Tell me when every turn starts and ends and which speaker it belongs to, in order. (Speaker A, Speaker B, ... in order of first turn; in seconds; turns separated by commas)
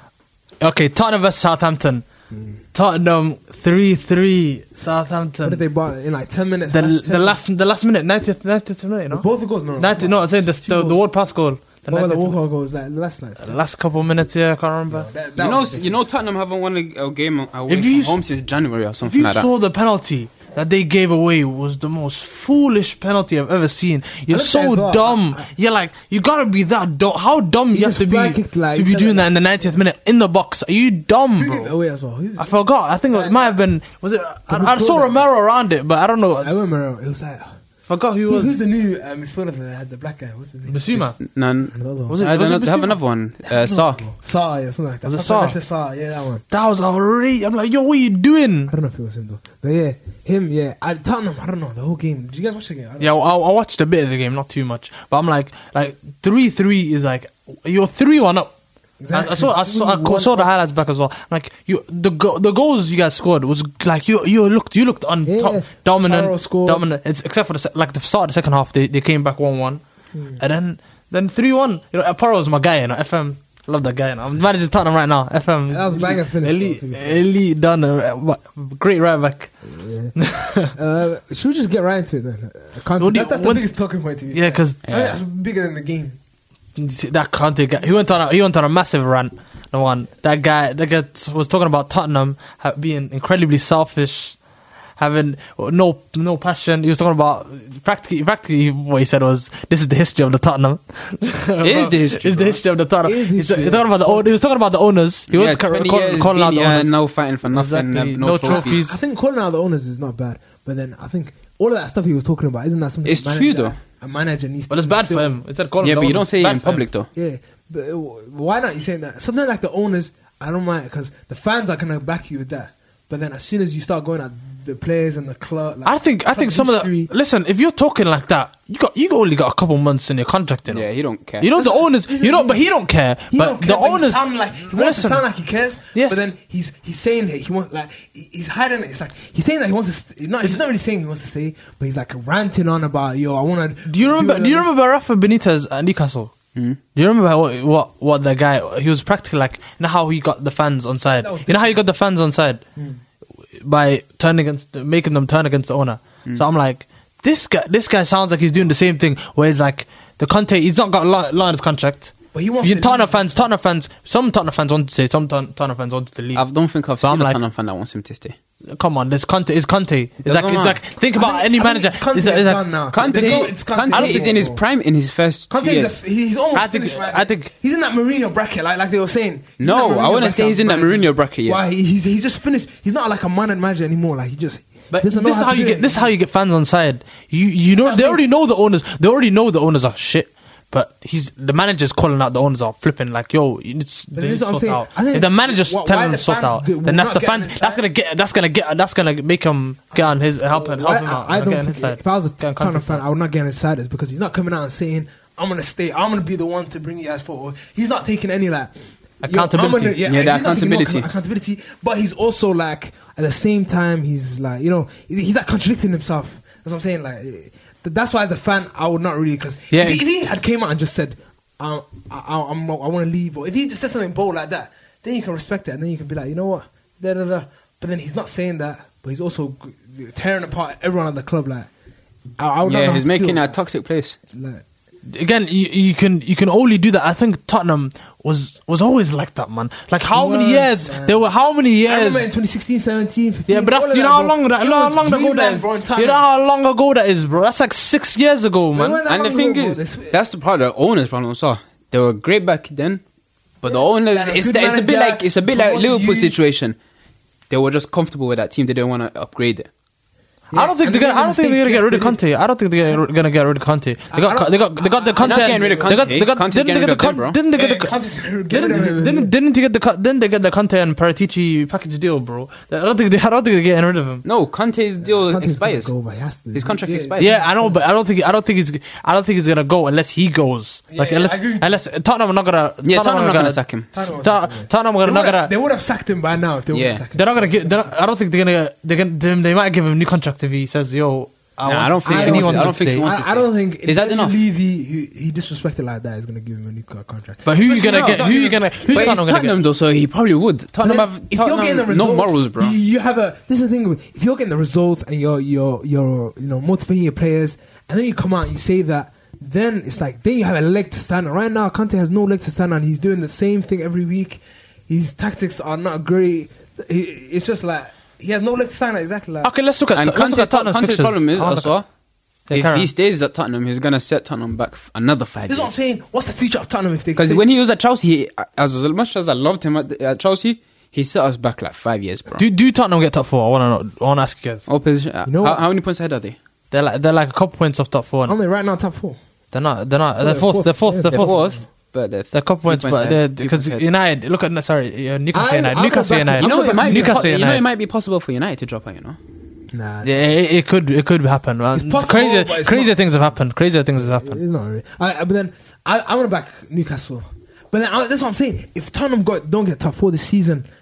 Speaker A: 0.6-2.0, Speaker B: 2.3-2.6, Speaker A: 2.7-5.6, Speaker B: 5.4-7.4, Speaker A: 6.7-9.3, Speaker B: 9.1-11.0, Speaker A: 9.8-12.4, Speaker B: 11.9-13.6, Speaker A: 13.4-15.1, Speaker B: 14.9-16.1, Speaker C: 15.4-19.5, Speaker A: 17.7-18.2, Speaker A: 19.0-31.7, Speaker B: 24.3-25.5, Speaker B: 27.7-29.7, Speaker B: 31.4-33.6, Speaker A: 32.4-36.6, Speaker B: 34.5-35.3, Speaker B: 36.4-37.5, Speaker A: 37.9-38.6, Speaker B: 38.3-41.1, Speaker A: 40.7-41.2, Speaker C: 41.2-44.0, Speaker B: 41.7-42.2, Speaker A: 42.1-43.0, Speaker B: 43.5-46.4, Speaker A: 45.0-45.6, Speaker A: 46.5-48.7, Speaker B: 48.7-53.1, Speaker A: 53.0-58.5, Speaker B: 59.0-60.5, Speaker A: 59.1-69.8, Speaker B: 65.3-66.8, Speaker B: 70.1-70.4, Speaker A: 70.4-79.5, Speaker B: 75.7-77.2, Speaker B: 79.7-80.2, Speaker A: 80.2-80.7, Speaker B: 80.7-86.2, Speaker A: 83.0-83.7, Speaker A: 84.3-84.8, Speaker C: 84.9-85.2, Speaker A: 86.8-94.4, Speaker A: 95.0-106.9, Speaker C: 101.6-102.6, Speaker B: 103.0-104.3, Speaker C: 105.3-108.8, Speaker A: 107.5-109.0, Speaker B: 108.4-115.4, Speaker C: 113.0-113.8, Speaker A: 114.7-116.9, Speaker C: 115.8-117.1, Speaker B: 117.2-127.1, Speaker A: 125.8-130.9, Speaker C: 130.7-131.5, Speaker A: 131.4-135.2, Speaker B: 131.6-132.6, Speaker B: 133.3-144.7, Speaker A: 135.9-136.3, Speaker A: 143.9-146.3, Speaker A: 146.9-152.6, Speaker B: 151.2-151.9, Speaker B: 152.8-153.0, Speaker A: 153.6-166.4, Speaker B: 162.3-163.5, Speaker C: 166.3-168.4, Speaker A: 167.0-167.4, Speaker A: 168.8-174.3, Speaker C: 170.2-170.8, Speaker B: 171.1-174.6, Speaker C: 172.9-176.0, Speaker B: 175.5-186.1, Speaker A: 176.6-177.5, Speaker C: 179.6-181.6, Speaker A: 184.9-203.0, Speaker B: 187.8-188.2, Speaker B: 194.1-197.8, Speaker B: 199.9-208.7, Speaker A: 209.2-210.0, Speaker B: 209.3-231.7, Speaker C: 210.0-211.1, Speaker A: 219.7-220.0, Speaker B: 232.4-233.5, Speaker C: 232.6-234.2, Speaker B: 234.3-234.6, Speaker A: 235.1-242.3, Speaker B: 240.1-241.2, Speaker B: 241.8-246.2, Speaker A: 243.5-249.0, Speaker B: 248.7-250.2, Speaker C: 249.1-253.0, Speaker C: 253.6-256.8, Speaker B: 253.7-256.4, Speaker C: 257.5-259.7, Speaker B: 260.5-262.2, Speaker A: 260.5-267.9, Speaker B: 264.1-266.2, Speaker C: 265.2-267.4, Speaker B: 267.5-269.3, Speaker A: 268.5-274.2, Speaker C: 274.2-275.9, Speaker B: 275.0-277.8, Speaker C: 276.5-277.4, Speaker A: 277.2-285.5, Speaker B: 280.9-281.8, Speaker C: 282.8-283.9, Speaker B: 283.9-287.8, Speaker C: 286.7-287.0, Speaker A: 287.2-293.1, Speaker C: 291.7-294.4, Speaker B: 292.1-299.2, Speaker A: 297.5-299.6, Speaker C: 298.9-302.8, Speaker B: 300.8-319.5, Speaker A: 319.4-321.7, Speaker C: 319.9-321.9, Speaker A: 322.5-322.9, Speaker C: 322.5-325.7, Speaker B: 325.5-327.4, Speaker C: 327.2-332.4, Speaker A: 332.4-334.6, Speaker C: 334.7-336.4, Speaker B: 335.2-335.6, Speaker A: 336.7-338.4, Speaker B: 338.3-339.2, Speaker A: 339.5-341.4, Speaker B: 340.2-341.6, Speaker C: 341.1-343.9, Speaker A: 342.3-347.6, Speaker B: 345.3-347.2, Speaker C: 346.4-349.2, Speaker B: 349.7-350.2, Speaker A: 350.0-354.4, Speaker B: 351.8-353.0, Speaker B: 354.0-360.7